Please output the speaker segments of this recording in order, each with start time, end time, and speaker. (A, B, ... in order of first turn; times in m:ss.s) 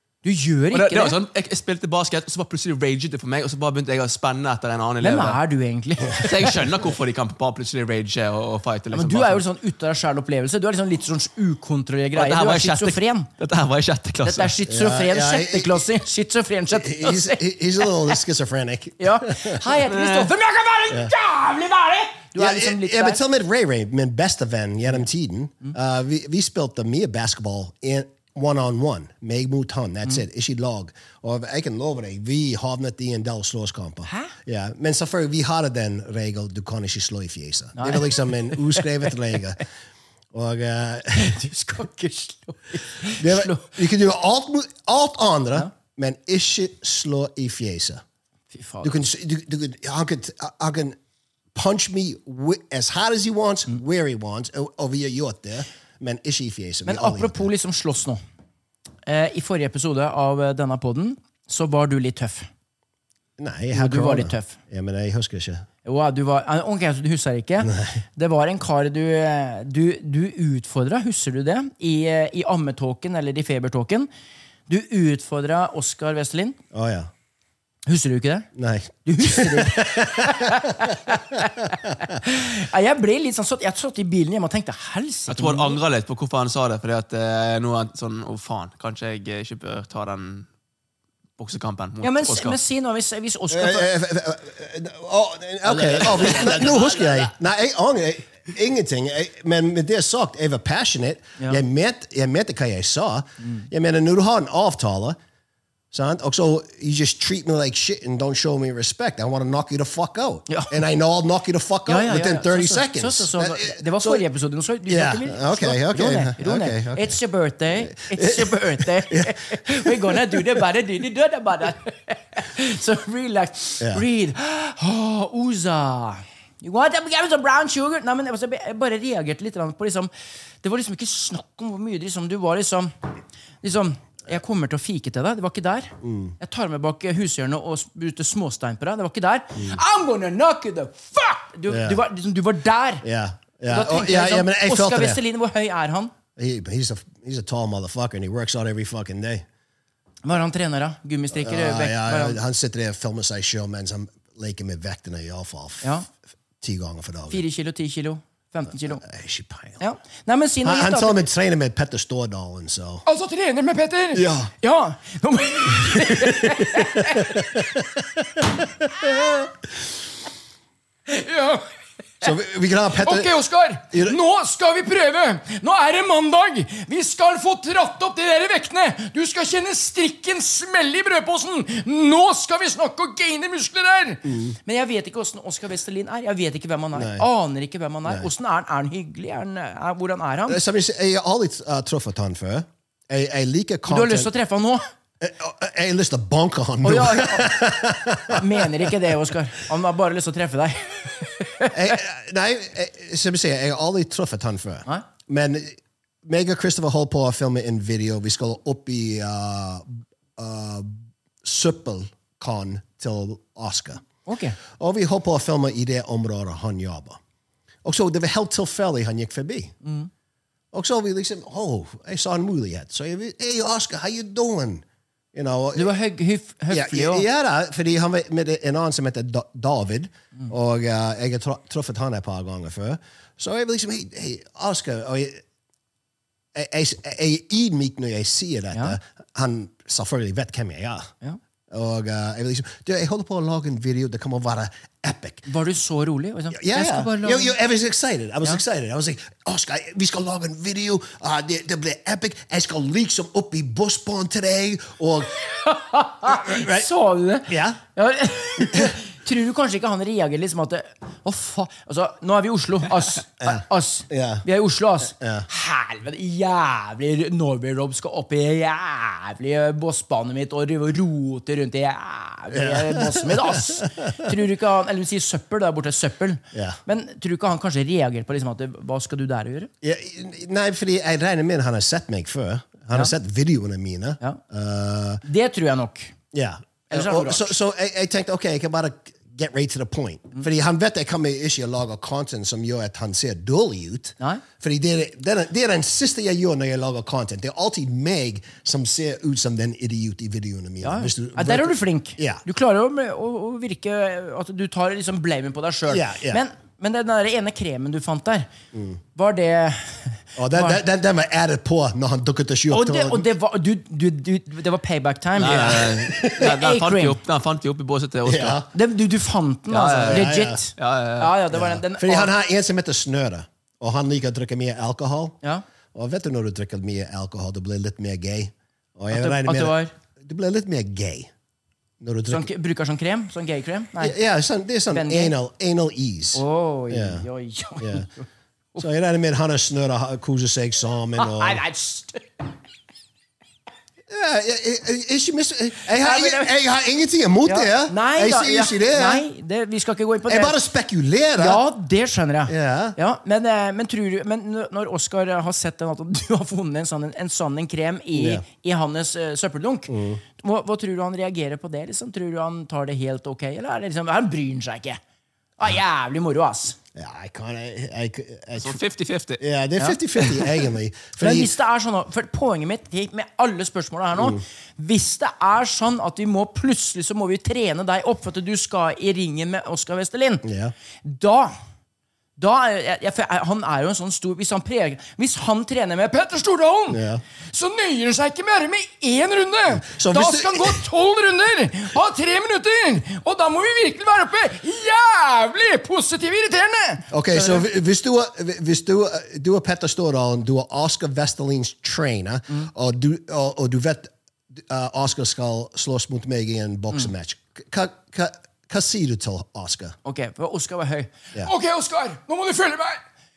0:00.2-0:01.2 A
0:00.7-0:05.4 B
0:05.0-0:06.6 A
0:06.2-0:09.4 B
0:08.9-0:13.3 A
0:12.1-0:14.5 B
0:14.2-0:18.1 A
0:14.7-0:15.9 C
0:16.7-0:19.6 C
0:19.0-0:23.2 A
0:19.9-0:20.3 B
0:22.4-0:39.6 C
0:34.0-0:34.3 A
0:37.8-0:39.4 A
0:40.3-0:41.4 C
0:41.2-0:43.8 A
0:43.1-0:48.0 C
0:48.5-0:49.0 A
0:48.8-0:51.0 C
0:51.5-0:57.5 C
0:56.8-0:58.2 A
0:59.0-1:02.5 A
1:03.4-1:05.7 C
1:03.7-1:04.6 A
1:05.8-1:14.1 A
1:07.6-1:08.0 C
1:14.7-1:16.6 A
1:16.7-1:17.1 C
1:17.9-1:18.5 A
1:18.5-1:21.4 C
1:19.0-1:25.8 A
1:25.3-1:30.5 B
1:31.4-1:32.6 B
1:32.0-1:33.9 A
1:33.5-1:45.2 C
1:35.6-1:37.3 A
1:43.4-1:43.7 A
1:45.9-1:54.2 C
1:51.9-2:10.1 A
1:54.9-1:57.2 C
1:57.8-2:00.4 C
2:10.6-2:12.9 A
2:13.6-2:23.0 A
2:16.0-2:16.4 C
2:21.7-2:22.0 C
2:23.0-2:25.2 C
2:23.7-2:26.1 A
2:26.4-2:29.4 C
2:30.2-2:32.4 A
2:31.3-2:36.0 C
2:35.8-2:36.1 A
2:36.6-2:37.4 C
2:37.3-2:39.0 A
2:39.0-2:39.8 C
2:39.8-2:41.2 A
2:40.6-2:43.0 C
2:43.0-2:47.8 A
2:44.1-2:44.5 C
2:45.8-2:49.5 C
2:51.1-2:51.6 A
2:52.2-2:53.3 C
2:53.0-3:10.6 A
2:53.9-2:54.2 C
3:04.2-3:04.6 C
3:06.9-3:07.2 C
3:10.5-3:14.3 C
3:13.9-3:14.8 A
3:15.2-3:18.9 C
3:16.8-3:17.6 A
3:18.3-3:22.0 A
3:21.7-3:34.0 C
3:34.2-3:34.6 A
3:34.7-3:37.2 C
3:37.8-3:39.7 C
3:39.8-3:40.1 A
3:40.7-3:45.9 C
3:45.7-3:47.2 A
3:46.7-3:55.4 C
3:56.5-4:01.1 C
4:01.7-4:05.5 C
4:05.5-4:07.6 A
4:06.5-4:15.3 C
4:15.5-4:39.7 A
4:16.2-4:16.9 C
4:17.5-4:17.8 C
4:18.6-4:18.9 C
4:23.4-4:24.4 C
4:25.1-4:25.5 C
4:32.5-4:34.3 C
4:36.5-4:36.8 C
4:39.8-4:45.2 C
4:45.2-4:46.1 A
4:46.3-5:02.4 C
4:46.9-4:47.5 A
5:00.8-5:08.5 A
5:05.9-5:06.4 C
5:08.7-5:09.0 C
5:09.1-5:10.8 A
5:10.4-5:13.3 C
5:12.7-5:15.8 A
5:15.4-5:18.6 B
5:15.4-5:16.5 C
5:16.4-5:17.2 A
5:18.2-5:18.7 C
5:18.7-5:22.3 A
5:19.7-5:21.3 B
5:20.0-5:20.6 C
5:21.5-5:25.4 C
5:25.9-5:31.3 C
5:29.1-5:29.9 A
5:32.0-5:32.5 C
5:32.3-5:34.2 A
5:34.0-5:37.2 C
5:34.9-5:35.3 A
5:36.3-5:38.2 A
5:37.8-5:38.1 C
5:38.8-5:41.6 C
5:41.2-5:42.2 A
5:44.1-5:49.2 C
5:46.0-5:46.5 A
5:47.4-5:50.6 A
5:50.3-5:51.6 C
5:51.4-6:05.0 A
5:52.5-5:53.0 C
5:58.1-5:58.4 C
5:59.9-6:00.2 C
6:05.6-6:06.8 A
6:06.9-6:08.8 C
6:08.6-6:09.4 B
6:09.4-6:11.5 C
6:11.2-6:20.4 A
6:14.2-6:14.4 C
6:20.4-6:20.7 C
6:21.0-6:21.5 A
6:22.4-6:37.6 A
6:26.9-6:27.2 C
6:29.7-6:30.8 C
6:37.1-6:49.9 C
6:50.0-6:53.0 A